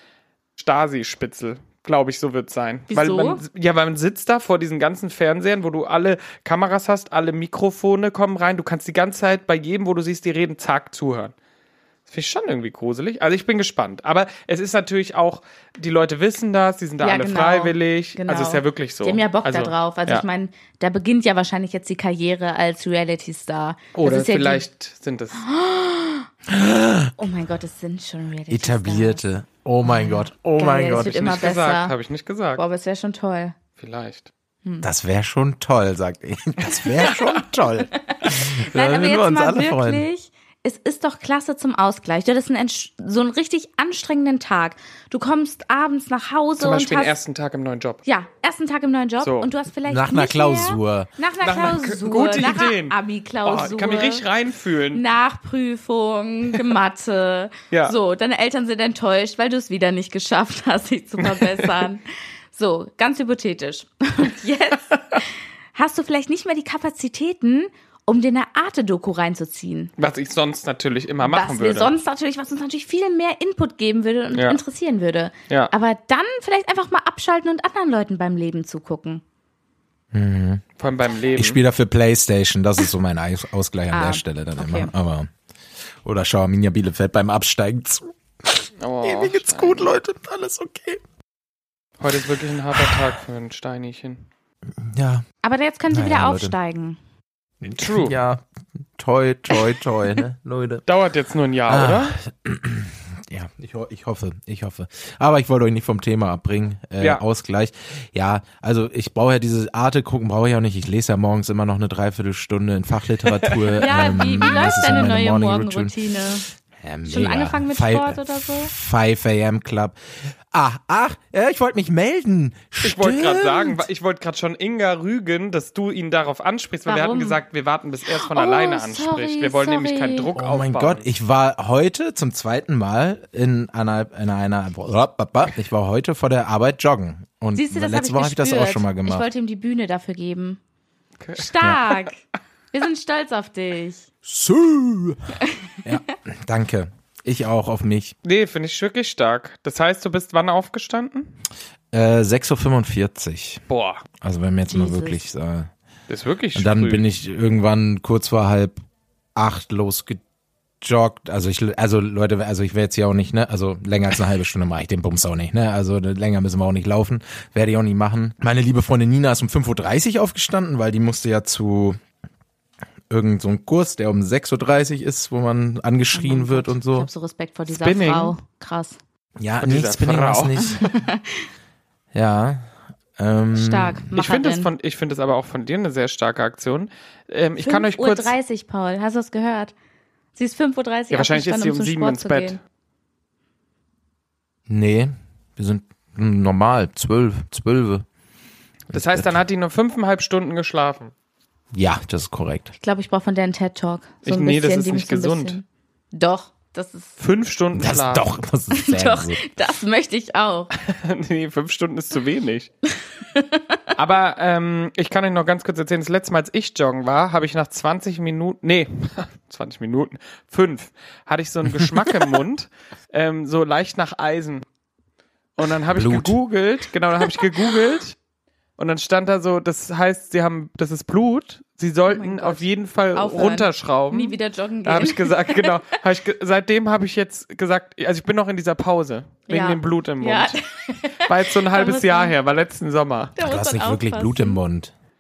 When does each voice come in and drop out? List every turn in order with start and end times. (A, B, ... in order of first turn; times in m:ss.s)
0:00.6-0:11.3 A
0:02.9-0:03.4 B
0:12.1-0:20.2 A
0:17.0-0:24.6 B
0:24.0-0:25.4 A
0:25.4-0:26.3 B
0:26.5-0:27.1 C
0:27.2-0:29.2 B
0:28.5-0:31.4 C
0:29.8-0:32.0 B
0:30.9-0:32.6 A
0:32.6-0:33.6 B
0:33.8-0:34.3 A
0:34.8-0:40.1 C
0:37.9-0:47.2 B
0:46.6-0:48.0 A
0:48.1-0:54.3 B
0:49.2-0:49.5 A
0:49.9-0:51.1 C
0:51.4-0:55.0 A
0:54.9-1:09.9 B
0:57.7-0:58.0 A
1:01.2-1:01.7 A
1:10.0-1:11.9 A
1:11.2-1:19.2 B
1:14.3-1:14.6 A
1:20.1-1:20.6 C
1:20.8-1:21.6 A
1:21.4-1:25.3 C
1:23.9-1:24.9 B
1:26.0-1:31.0 C
1:28.8-1:29.9 A
1:32.0-1:34.3 A
1:32.7-1:33.2 C
1:34.8-1:35.2 C
1:35.4-1:37.0 B
1:35.9-1:36.5 C
1:37.6-1:40.8 C
1:37.6-1:38.2 A
1:40.9-1:42.2 A
1:41.7-1:55.9 C
1:53.4-1:53.8 A
1:53.8-1:56.5 B
1:56.8-2:03.9 C
1:57.1-1:58.7 B
2:02.8-2:11.0 A
2:06.9-2:07.4 B
2:08.1-2:10.3 B
2:10.4-2:19.3 C
2:17.5-2:20.6 B
2:21.2-2:21.8 A
2:21.4-2:24.1 B
2:24.2-2:28.2 C
2:25.4-2:25.9 B
2:28.2-2:31.3 A
2:31.9-2:33.6 C
2:33.7-2:34.0 A
2:34.2-2:35.7 C
2:34.7-2:35.2 B
2:36.1-2:37.0 A
2:36.6-2:38.8 C
2:39.4-2:40.2 C
2:40.8-2:52.0 C
2:53.1-2:57.1 C
2:56.1-2:59.0 B
2:57.7-2:58.3 A
2:59.4-3:00.8 C
2:59.6-3:00.9 A
3:00.8-3:01.5 B
3:02.1-3:04.1 C
3:03.5-3:04.7 B
3:04.2-3:08.4 A
3:07.6-3:09.7 B
3:10.4-3:12.6 B
3:11.1-3:12.6 A
3:14.7-3:18.0 C
3:18.9-3:19.4 C
3:18.9-3:21.1 A
3:21.7-3:22.7 C
3:22.8-3:27.2 B
3:24.2-3:25.6 A
3:27.2-3:28.3 A
3:27.8-3:29.4 C
3:28.7-3:30.7 B
3:30.8-3:32.7 A
3:33.3-3:33.8 B
3:34.0-3:44.6 A
3:45.6-3:48.2 A
3:45.8-3:46.4 C
3:48.8-4:00.6 A
3:52.1-3:55.9 B
3:59.5-4:02.4 B
4:01.2-4:03.3 A
4:03.4-4:04.6 B
4:03.4-4:04.9 C